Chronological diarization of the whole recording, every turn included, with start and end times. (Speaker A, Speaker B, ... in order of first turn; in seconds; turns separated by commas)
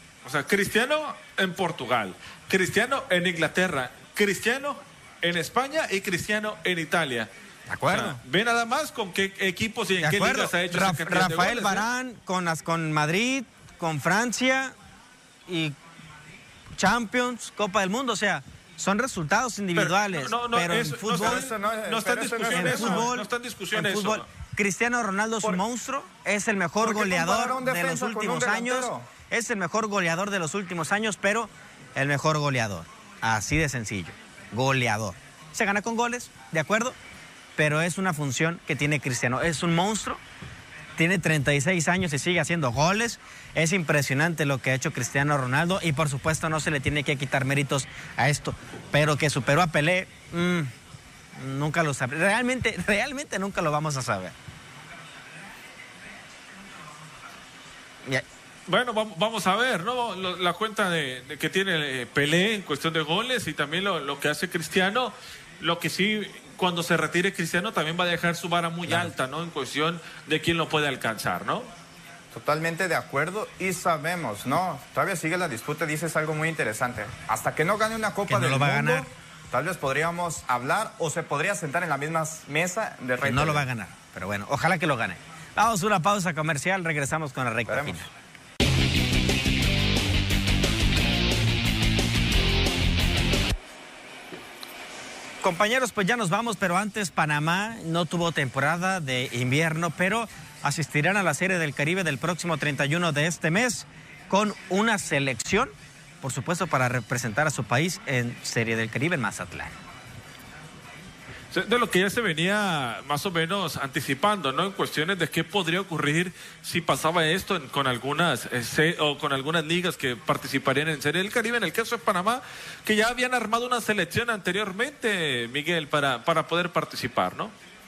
Speaker A: 0.2-7.3, Speaker B: 7.7-8.2, Speaker A: 7.9-11.8, Speaker B: 10.0-14.7, Speaker B: 15.5-15.7, Speaker B: 16.7-21.5, Speaker A: 19.7-24.2, Speaker C: 21.1-23.1, Speaker B: 22.5-37.0, Speaker C: 26.8-29.1, Speaker B: 37.6-40.2, Speaker B: 41.0-50.7, Speaker B: 51.4-54.3, Speaker A: 58.7-71.7, Speaker B: 68.8-69.1, Speaker C: 72.3-83.7, Speaker B: 78.3-79.1, Speaker B: 83.2-88.1, Speaker C: 87.7-88.0, Speaker B: 95.4-109.7, Speaker A: 111.5-127.5